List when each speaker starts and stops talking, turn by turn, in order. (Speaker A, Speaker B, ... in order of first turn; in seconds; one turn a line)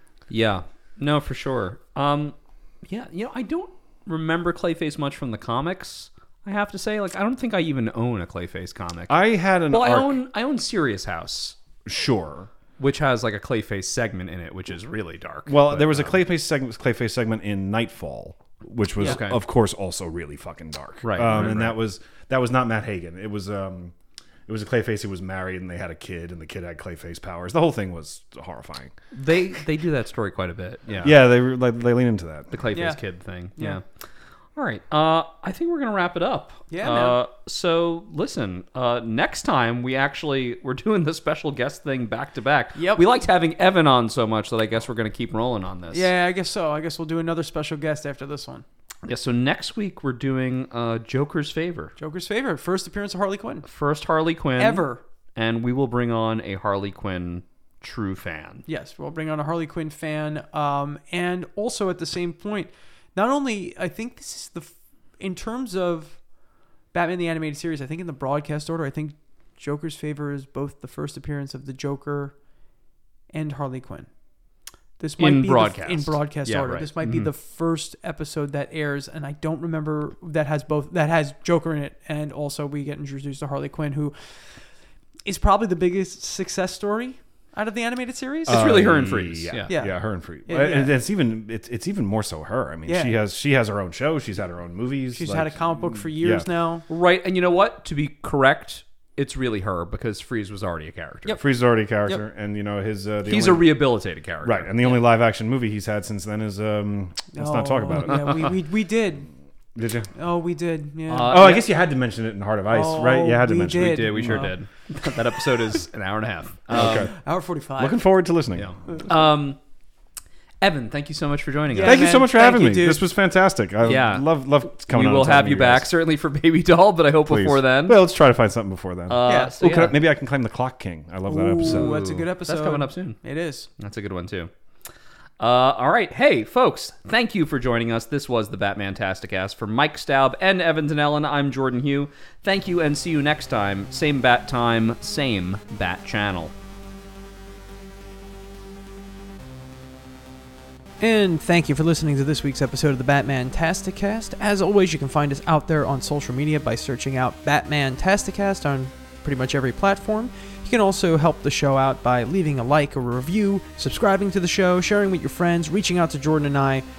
Speaker A: 0.3-9.2
Speaker B: 9.1-10.2
Speaker A: 9.7-11.6
Speaker B: 11.8-12.5
Speaker A: 12.8-16.1
Speaker B: 15.5-23.9
Speaker A: 19.0-19.4
Speaker A: 21.0-21.8
Speaker B: 24.5-28.9
Speaker A: 29.1-31.2
Speaker B: 31.0-32.8
Speaker A: 32.5-33.8
Speaker C: 32.7-33.0
Speaker A: 34.6-46.1
Speaker C: 36.7-37.2
Speaker C: 42.8-43.0
Speaker C: 45.9-48.6
Speaker A: 49.0-51.9
Speaker C: 52.0-53.7
Speaker A: 53.7-58.6
Speaker C: 54.6-55.0
Speaker C: 58.7-66.2
Speaker C: 66.9-72.3
Speaker C: 73.3-74.1
Speaker C: 75.0-84.5
Speaker A: 75.2-77.3
Speaker C: 85.3-88.8
Speaker B: 88.5-96.5
Speaker A: 88.5-89.7
Speaker C: 89.7-90.9
Speaker C: 92.9-93.1
Speaker C: 95.1-96.8
Speaker A: 96.9-101.4
Speaker B: 101.4-103.8
Speaker A: 103.3-105.0
Speaker B: 104.4-108.5
Speaker C: 107.3-109.3
Speaker B: 109.8-110.1
Speaker C: 110.1-111.6
Speaker A: 111.1-111.7
Speaker B: 111.2-114.4
Speaker C: 112.7-114.6
Speaker A: 113.8-117.1
Speaker B: 116.7-117.1
Speaker C: 116.8-118.0
Speaker B: 117.8-118.7
Speaker A: 118.5-119.6
Speaker A: 120.6-122.1
Speaker C: 121.7-123.1
Speaker B: 121.8-125.9
Speaker A: 123.8-128.0
Speaker B: 127.3-131.9
Speaker A: 129.1-130.0
Speaker C: 129.3-129.9
Speaker C: 131.3-133.7
Speaker A: 131.6-133.2
Speaker A: 133.8-134.5
Speaker A: 135.4-146.5
Speaker C: 151.0-166.8